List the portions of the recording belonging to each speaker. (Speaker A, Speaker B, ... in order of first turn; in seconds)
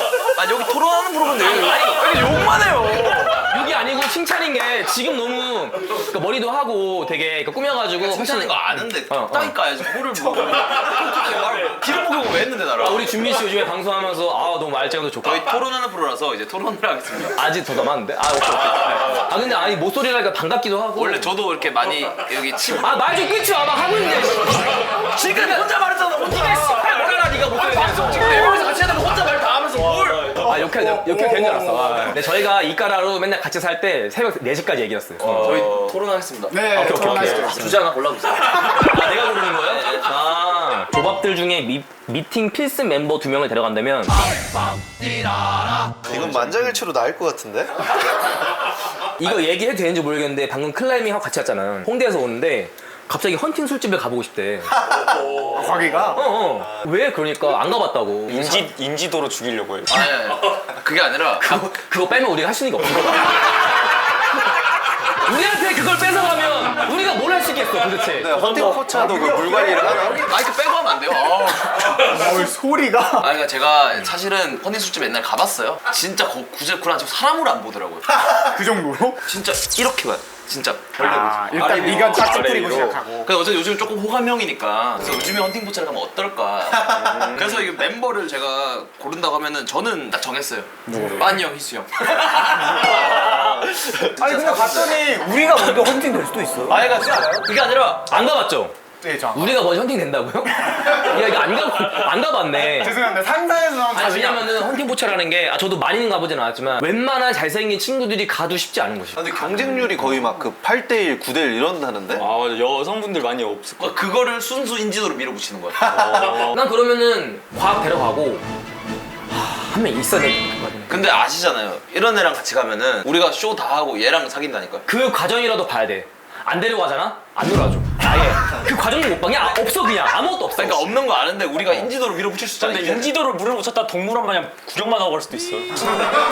Speaker A: 0.3-3.2, 8.0-13.1, 15.2-17.4, 20.9-22.9, 25.1-25.9, 27.9-30.3, 35.4-38.7, 39.6-40.1, 58.3-58.6, 59.9-61.7, 70.2-72.0, 73.2-78.1, 79.2-93.5, 94.1-95.0, 96.7-98.0, 113.8-115.9, 120.9-124.8, 130.6-133.1
Speaker B: 1.4-2.2, 3.4-9.5, 12.8-15.5, 17.4-21.3, 22.8-28.4, 30.3-35.6, 36.7-37.8, 38.6-44.2, 49.2-54.7, 56.1-58.5, 61.4-63.3, 65.2-68.3, 98.0-98.7, 99.3-103.0, 103.9-109.8, 116.1-118.4, 119.3-121.1, 124.9-130.9
Speaker C: 2.0-3.4, 25.7-26.3, 28.3-28.8, 29.7-32.0, 35.2-36.0, 36.8-37.5, 55.3-55.9, 58.3-60.0, 68.3-68.7, 81.5-83.0, 86.8-87.7, 93.1-94.1, 112.1-114.0, 115.8-116.6, 132.6-135.8
Speaker D: 31.4-31.8, 36.5-37.8, 55.4-56.3, 68.3-70.3, 71.7-73.3, 78.3-79.2, 81.0-83.3, 90.9-91.4, 94.2-97.0, 99.0-99.7, 102.7-104.6
Speaker E: 46.0-47.8, 68.2-70.3, 86.9-87.3, 109.1-112.3